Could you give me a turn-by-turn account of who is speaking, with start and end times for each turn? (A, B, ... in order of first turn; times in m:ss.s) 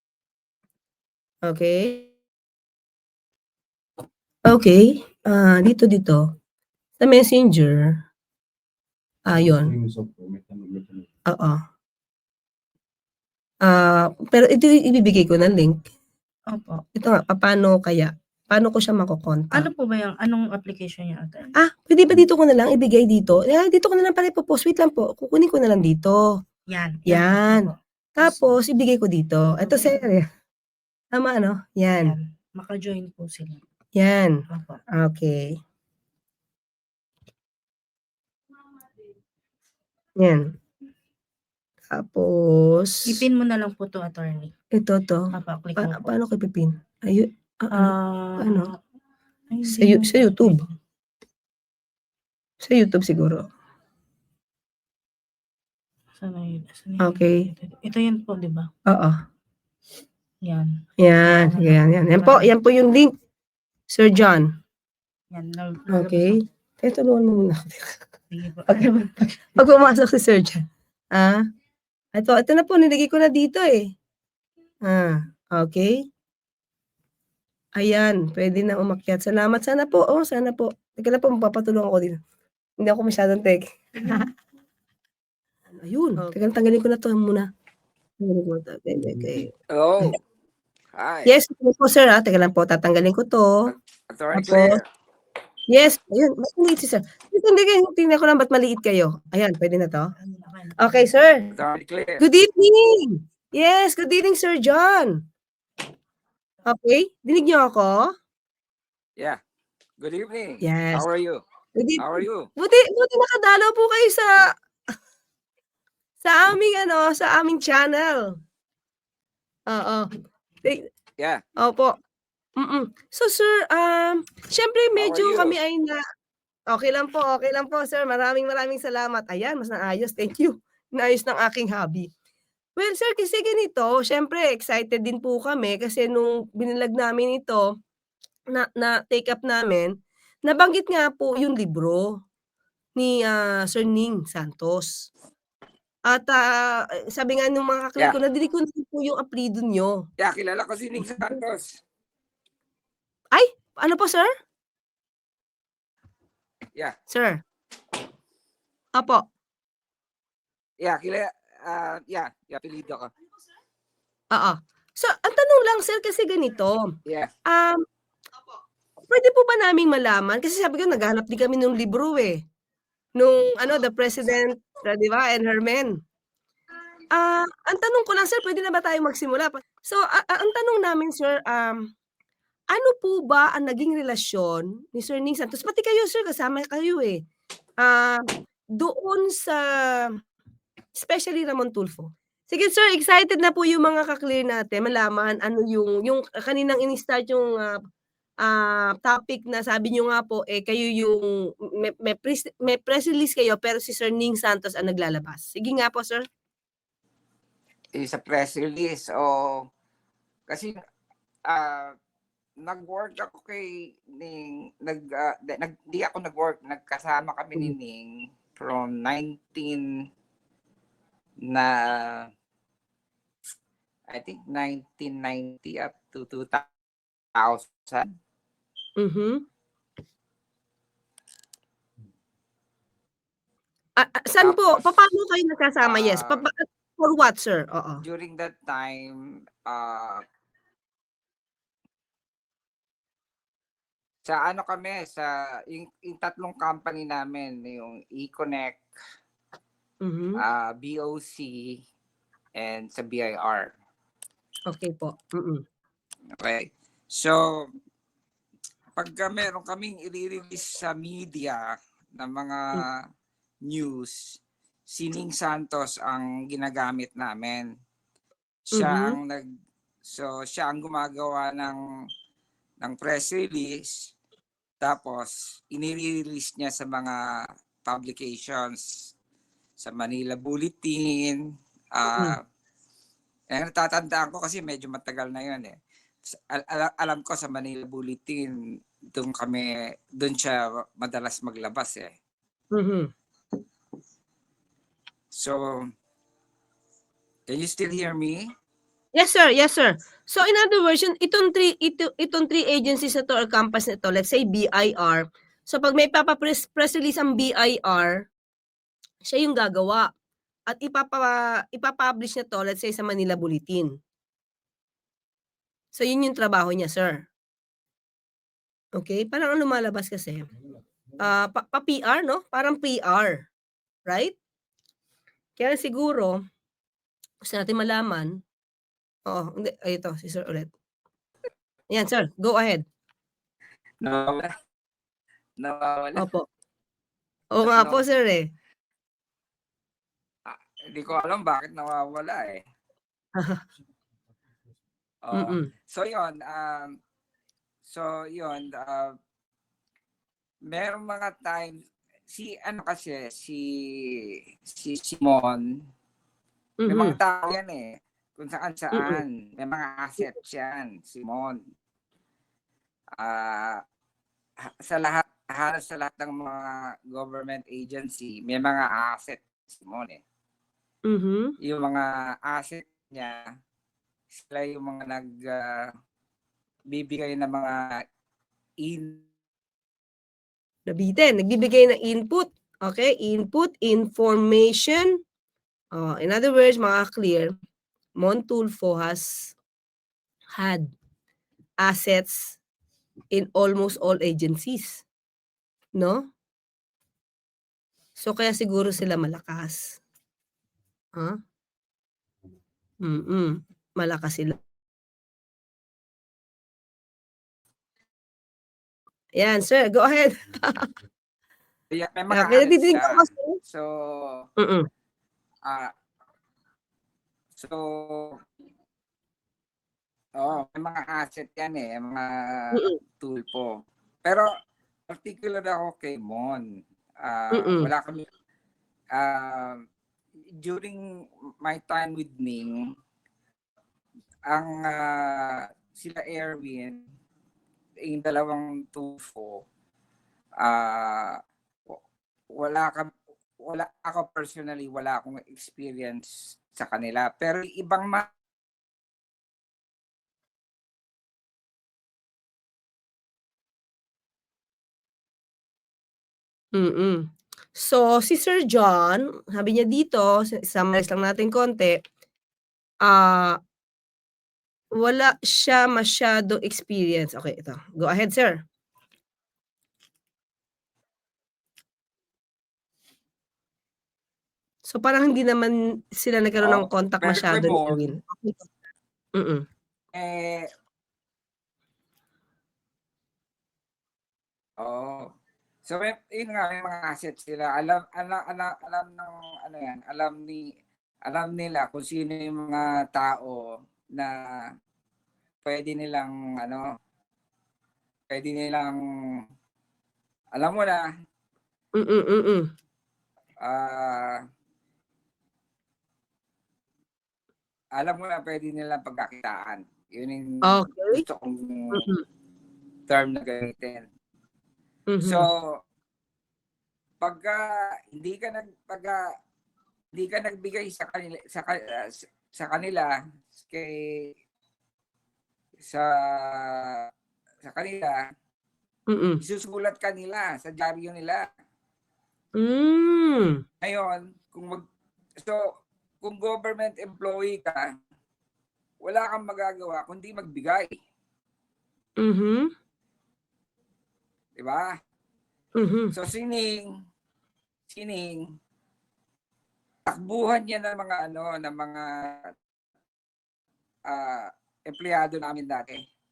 0:01.4-0:02.1 A
0:04.5-0:06.2 A
0:07.0-0:08.0 A
0:09.2-0:09.8 A
0:11.3-0:11.6 A
0:13.6-0:15.8 A
0:16.5-0:16.8 B
0:16.9-0:19.7 A
0:19.5-0:21.5 B
0:21.6-0:26.4 A
0:26.7-0:28.5 B
0:27.1-0:30.2 A
0:29.6-0:30.1 B
0:31.1-0:32.2 A
0:32.0-0:33.6 B
0:34.0-0:35.6 A
0:34.5-0:34.8 B
0:40.2-0:40.5 A
0:41.9-0:43.2 A
0:43.0-0:44.5 B
0:44.7-0:48.7 A
0:45.3-0:46.1 B
0:47.7-0:48.8 B
0:49.5-0:50.6 B
0:49.7-0:50.7 A
0:52.6-0:53.4 A
0:56.2-0:58.7 B
0:57.0-0:57.5 A
0:58.8-0:59.2 A
1:00.4-1:02.5 B
1:01.0-1:03.1 A
1:03.9-1:04.5 A
1:05.3-1:06.4 B
1:05.9-1:08.0 A
1:08.3-1:09.6 B
1:08.7-1:11.4 A
1:12.1-1:13.9 A
1:14.8-1:16.0 A
1:17.8-1:22.2 A
1:22.8-1:24.3 A
1:25.8-1:27.5 A
1:28.2-1:30.2 A
1:29.7-1:30.2 C
1:30.9-1:31.3 C
1:31.2-1:33.7 A
1:33.7-1:34.8 C
1:34.3-1:34.8 A
1:35.7-1:40.1 A
1:40.2-1:41.1 B
1:40.8-1:41.5 A
1:41.6-1:42.2 C
1:42.2-1:45.2 A
1:46.6-1:48.1 A
1:50.0-1:51.4 C
1:50.6-1:51.1 A
1:51.8-1:54.5 A
1:52.0-1:52.5 C
1:56.2-1:58.4 A
1:59.7-2:00.1 A
2:01.6-2:02.0 A
2:02.6-2:06.0 A
2:05.0-2:05.6 C
2:06.7-2:12.1 A
2:12.8-2:17.7 A
2:18.5-2:22.2 A
2:23.0-2:25.1 A
2:26.1-2:30.0 A
2:30.2-2:31.8 C
2:31.0-2:31.4 A
2:33.3-2:34.3 A
2:37.1-2:37.4 A
2:39.0-2:39.2 A
2:40.8-2:43.1 C
2:44.3-2:47.8 A
2:47.0-2:47.3 C
2:49.1-2:52.4 A
2:53.2-2:56.0 A
2:57.1-3:01.9 A
3:02.7-3:07.2 A
3:07.8-3:10.2 A
3:10.9-3:17.8 A
3:18.4-3:26.2 A
3:27.9-3:29.7 C
3:30.5-3:30.8 C
3:31.4-3:31.9 C
3:32.6-3:39.8 C
3:41.5-3:42.3 C
3:44.1-3:46.7 C
3:47.3-3:48.1 C
3:49.0-3:49.4 A
3:54.0-3:58.0 A
3:54.4-3:54.8 C
3:55.8-3:56.4 C
3:58.0-4:00.2 C
4:04.2-4:08.8 C
4:10.0-4:10.4 A
4:10.4-4:11.8 C
4:12.6-4:13.7 C
4:14.7-4:15.6 A
4:16.4-4:17.4 C
4:19.0-4:23.0 C
4:23.7-4:24.2 C
4:24.9-4:27.7 C
4:28.7-4:29.2 A
4:28.7-4:29.4 C
4:30.0-4:31.8 C
4:32.8-4:34.1 C
4:34.8-4:37.2 C
4:37.8-4:39.1 C
4:39.8-4:41.4 C
4:41.9-4:42.4 C
4:42.1-4:42.4 A
4:43.5-4:45.8 C
4:46.3-4:48.6 C
4:49.1-4:52.1 C
4:52.7-4:53.1 A
4:55.3-4:55.9 C
4:57.5-4:58.5 C
4:59.1-5:08.3 A
5:09.2-5:10.1 A
5:10.7-5:14.0 A
5:15.9-5:17.3 A
5:19.0-5:20.5 A
5:21.2-5:23.5 A
5:24.1-5:24.3 A
5:25.6-5:26.4 A
5:27.4-5:28.4 A
5:29.2-5:30.7 A
5:31.9-5:32.8 A
5:34.0-5:34.5 C
5:35.6-5:36.2 C
5:36.2-5:36.4 A
5:37.5-5:38.5 A
5:37.6-5:38.0 C
5:40.4-5:42.6 C
5:43.4-5:43.6 A
5:45.2-5:47.0 C
5:45.3-5:45.7 A
5:47.9-5:49.1 C
5:50.7-5:51.7 C
5:52.3-5:55.7 C
5:56.8-5:57.2 A
5:56.9-6:01.6 C
5:58.9-5:59.2 A
6:03.2-6:03.8 C
6:04.8-6:10.2 C
6:11.1-6:11.5 A
6:11.6-6:13.4 C
6:14.3-6:15.9 C
6:16.9-6:18.0 C
6:18.8-6:19.2 C
6:20.9-6:25.2 A
6:25.9-6:27.5 A
6:28.2-6:29.5 A
6:30.5-6:30.9 A
6:31.8-6:32.6 A
6:33.3-6:35.0 A
6:36.0-6:36.3 A
6:38.2-6:40.0 A
6:43.0-6:44.6 A
6:49.4-6:50.9 A
6:51.9-6:54.5 C
6:52.3-6:53.6 A
6:54.6-6:54.8 A
6:55.6-6:55.9 C
6:57.6-6:58.4 C
7:00.4-7:03.7 C
7:05.1-7:06.6 C
7:07.2-7:08.2 C
7:07.5-7:07.9 A
7:09.1-7:09.8 C
7:10.6-7:11.0 C
7:11.6-7:12.8 C
7:14.5-7:17.0 C
7:18.0-7:19.6 C
7:20.6-7:22.0 C
7:22.5-7:28.3 C
7:36.8-7:42.0 A
7:43.0-7:43.6 A
7:45.0-7:48.6 A
7:54.8-7:58.6 A
7:56.6-7:58.1 C
7:59.3-7:59.6 A
8:00.1-8:00.7 C
8:04.8-8:05.3 C
8:05.8-8:10.6 C
8:11.2-8:14.3 C
8:15.6-8:16.9 C
8:18.3-8:19.0 C
8:20.6-8:21.1 C
8:22.0-8:22.6 A
8:23.6-8:24.4 C
8:28.0-8:32.0 C
8:30.6-8:31.2 A
8:31.9-8:32.2 A
8:33.1-8:34.0 C
8:35.1-8:35.5 A
8:35.2-8:35.8 C
8:37.2-8:39.2 C
8:40.1-8:44.3 C
8:45.8-8:47.1 C
8:47.6-8:48.3 C
8:49.1-8:49.4 A
8:49.4-8:51.5 C
8:52.6-8:53.6 A
8:53.8-8:54.8 C
8:56.2-8:57.9 C
8:59.0-9:01.0 C
9:02.2-9:02.7 A
9:04.6-9:04.9 C
9:05.8-9:06.1 A
9:06.1-9:06.9 C
9:07.9-9:08.4 C
9:10.0-9:12.5 C
9:14.1-9:16.0 C